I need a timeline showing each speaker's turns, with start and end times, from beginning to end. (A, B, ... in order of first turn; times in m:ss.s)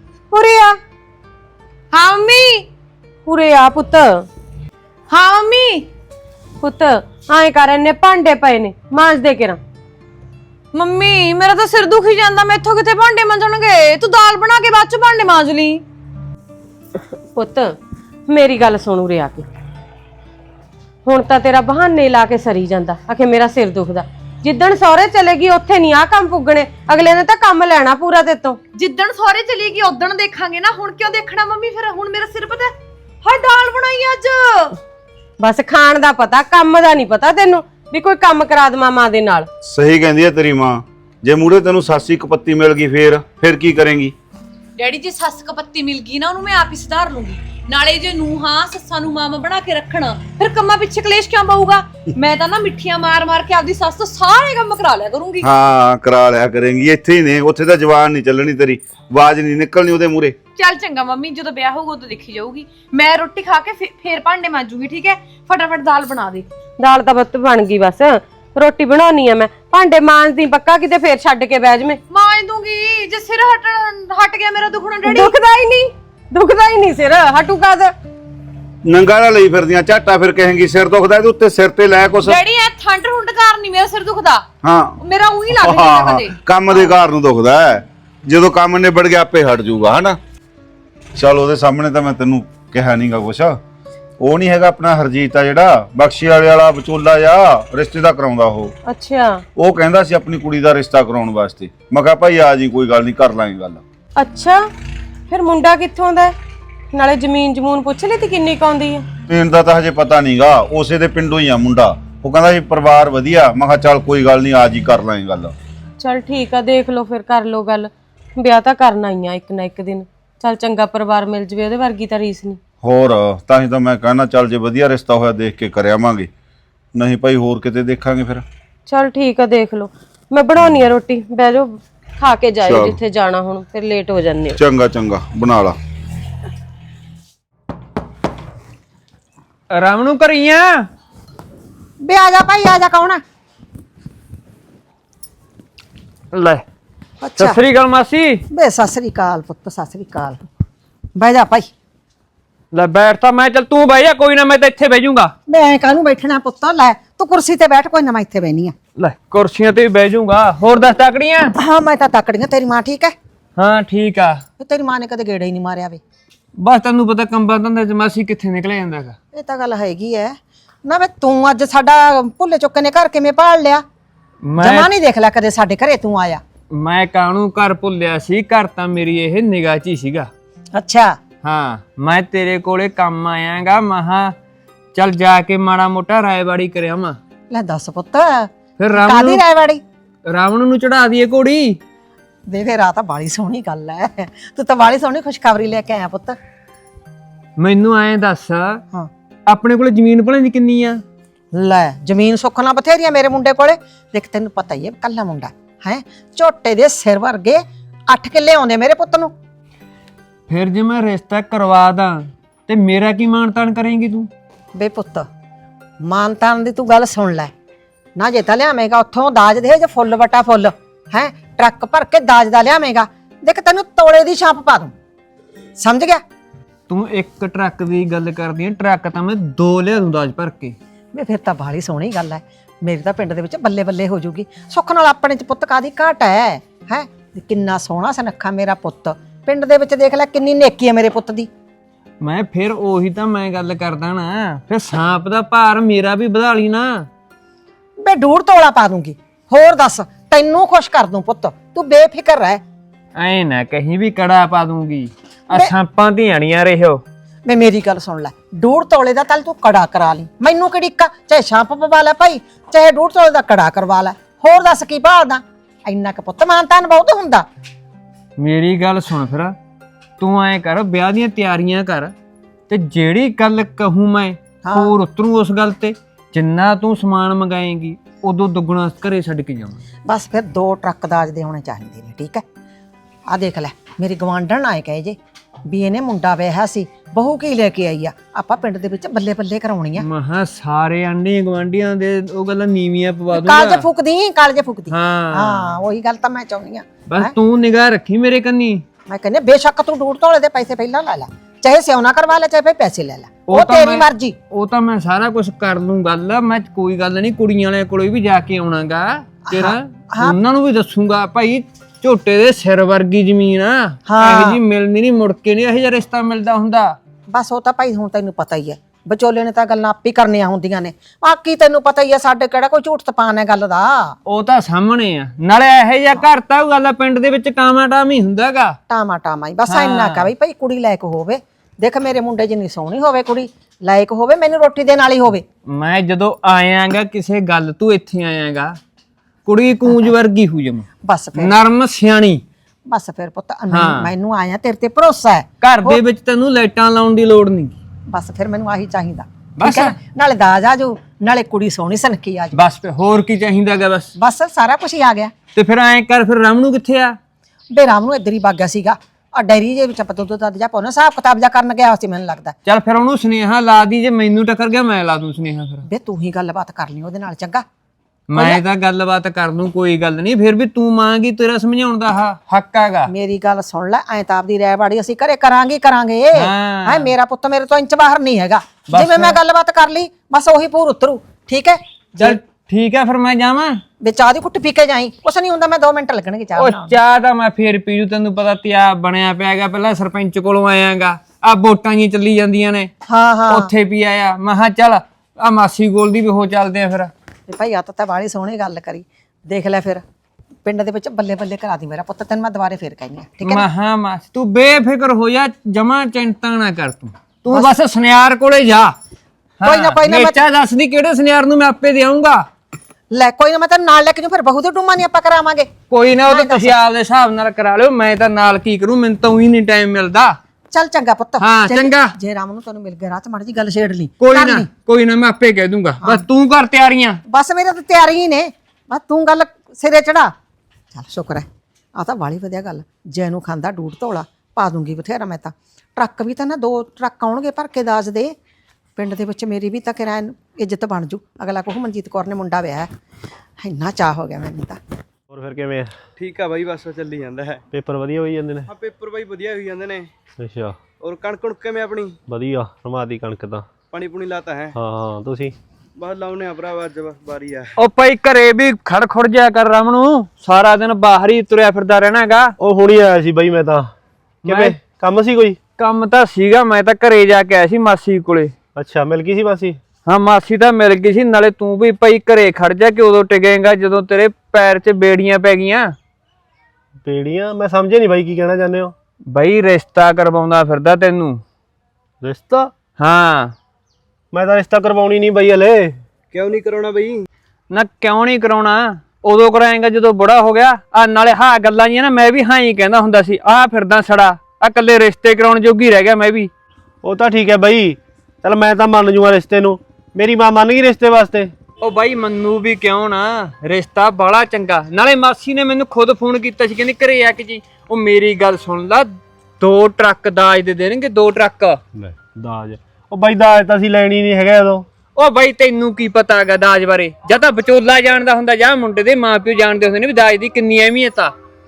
0:00.3-0:00.8 A
0:01.9-0:02.7 B
0:03.3-0:04.3 A
0:05.1-0:05.9 B
0:06.6-0:09.6 A
0:10.7-0:15.8 B
0:17.1-0:17.8 A
0:18.3-0:19.5 A
0:21.1-0:28.6 A
0:28.7-0:34.8 B
0:35.4-0:39.5 A
0:39.6-0:44.2 C
0:44.8-0:55.5 B
0:55.4-1:00.4 C
1:00.6-1:06.5 B
1:06.8-1:12.0 A
1:12.1-1:15.3 B
1:15.0-1:18.0 A
1:18.8-1:22.4 C
1:22.2-1:24.4 B
1:24.6-1:25.0 C
1:25.0-1:27.0 B
1:25.5-1:30.2 C
1:31.2-1:33.6 C
1:34.2-1:38.7 C
1:38.9-1:39.4 A
1:39.6-1:43.8 C
1:44.2-1:44.7 A
1:45.3-1:46.4 A
1:46.9-1:49.1 A
1:49.3-1:55.6 C
1:56.0-2:02.6 A
2:02.8-2:06.3 C
2:07.0-2:08.4 C
2:08.9-2:14.6 A
2:10.6-2:10.9 C
2:12.6-2:13.0 C
2:14.6-2:15.8 C
2:19.7-2:20.9 D
2:22.0-2:23.2 E
2:26.3-2:26.6 D
2:27.2-2:27.6 E
2:27.4-2:28.4 D
2:28.5-2:30.4 E
2:31.2-2:31.7 E
2:32.7-2:35.3 D
2:35.5-2:38.8 E
2:39.0-2:41.5 D
2:41.6-2:43.2 E
2:43.6-2:44.4 D
2:44.6-2:46.0 E
2:46.6-2:49.2 D
2:49.3-2:53.8 E
2:54.4-2:54.9 D
2:54.6-2:56.4 E
2:56.7-3:00.3 D
3:00.7-3:01.2 E
3:01.4-3:04.4 D
3:05.0-3:07.2 D
3:07.5-3:09.8 E
3:08.8-3:09.4 D
3:10.3-3:11.8 D
3:12.5-3:16.4 E
3:17.6-3:18.8 D
3:19.5-3:21.0 D
3:21.5-3:29.3 E
3:30.5-3:34.3 D
3:34.8-3:35.3 E
3:36.0-3:37.5 E
3:38.2-3:45.0 E
3:45.8-3:46.2 E
3:46.9-3:50.8 D
3:51.1-4:01.5 E
4:02.2-4:07.1 D
4:08.0-4:12.6 E
4:13.2-4:17.0 D
4:17.5-4:27.5 E
4:28.4-4:29.6 D
4:30.2-4:32.1 D
4:32.7-4:39.8 D
4:34.6-4:35.0 E
4:40.1-4:42.4 E
4:43.3-4:50.1 E
4:50.0-4:53.9 D
4:53.3-4:57.3 E
4:54.9-4:55.7 D
4:57.1-4:58.8 D
4:59.1-5:04.4 E
5:03.5-5:17.0 D
5:09.5-5:10.4 E
5:14.1-5:14.6 E
5:17.3-5:24.1 E
5:24.3-5:28.8 D
5:28.9-5:35.4 E
5:29.7-5:30.3 D
5:35.7-5:38.8 D
5:39.5-5:42.4 D
5:41.0-5:41.6 E
5:42.9-5:46.0 E
5:43.7-5:44.1 D
5:45.6-5:47.8 D
5:48.1-5:52.6 E
5:49.6-5:50.0 D
5:52.6-5:54.1 D
5:54.2-5:55.3 E
5:55.6-5:57.2 D
5:57.7-6:02.5 E
6:02.7-6:05.8 D
6:05.8-6:07.6 E
6:08.3-6:13.1 D
6:08.4-6:08.6 E
6:13.1-6:22.4 E
6:16.4-6:17.1 D
6:18.9-6:19.4 D
6:22.2-6:23.8 D
6:24.0-6:27.0 E
6:26.6-6:32.9 D
6:33.1-6:33.7 E
6:33.5-6:37.1 D
6:37.5-6:40.0 E
6:40.6-6:43.7 E
6:43.4-6:49.0 D
6:49.6-6:52.4 D
6:49.6-6:50.4 E
6:53.1-6:55.7 E
6:55.9-7:00.4 D
6:56.3-6:56.8 E
7:00.7-7:04.7 E
7:01.4-7:02.1 D
7:04.2-7:07.2 D
7:07.3-7:10.3 E
7:10.9-7:18.4 E
7:19.0-7:22.9 E
7:23.6-7:24.8 E
7:25.3-7:25.9 F
7:26.2-7:27.6 G
7:27.7-7:28.7 F
7:28.7-7:30.1 G
7:30.4-7:30.8 F
7:31.0-7:32.2 G
7:32.3-7:33.7 F
7:33.9-7:34.8 G
7:34.7-7:35.5 F
7:36.0-7:37.7 G
7:37.8-7:42.5 D
7:42.6-7:43.9 F
7:44.4-7:45.6 F
7:44.5-7:44.8 D
7:45.8-7:48.5 D
7:48.8-7:49.8 F
7:50.1-7:56.0 D
7:57.0-7:58.9 F
7:59.3-8:01.4 D
8:02.2-8:02.7 F
8:03.0-8:03.6 D
8:04.3-8:06.0 F
8:06.3-8:07.3 G
8:07.7-8:16.5 D
8:17.0-8:21.5 F
8:21.8-8:29.1 D
8:29.6-8:31.8 D
8:32.0-8:34.9 F
8:35.2-8:41.3 D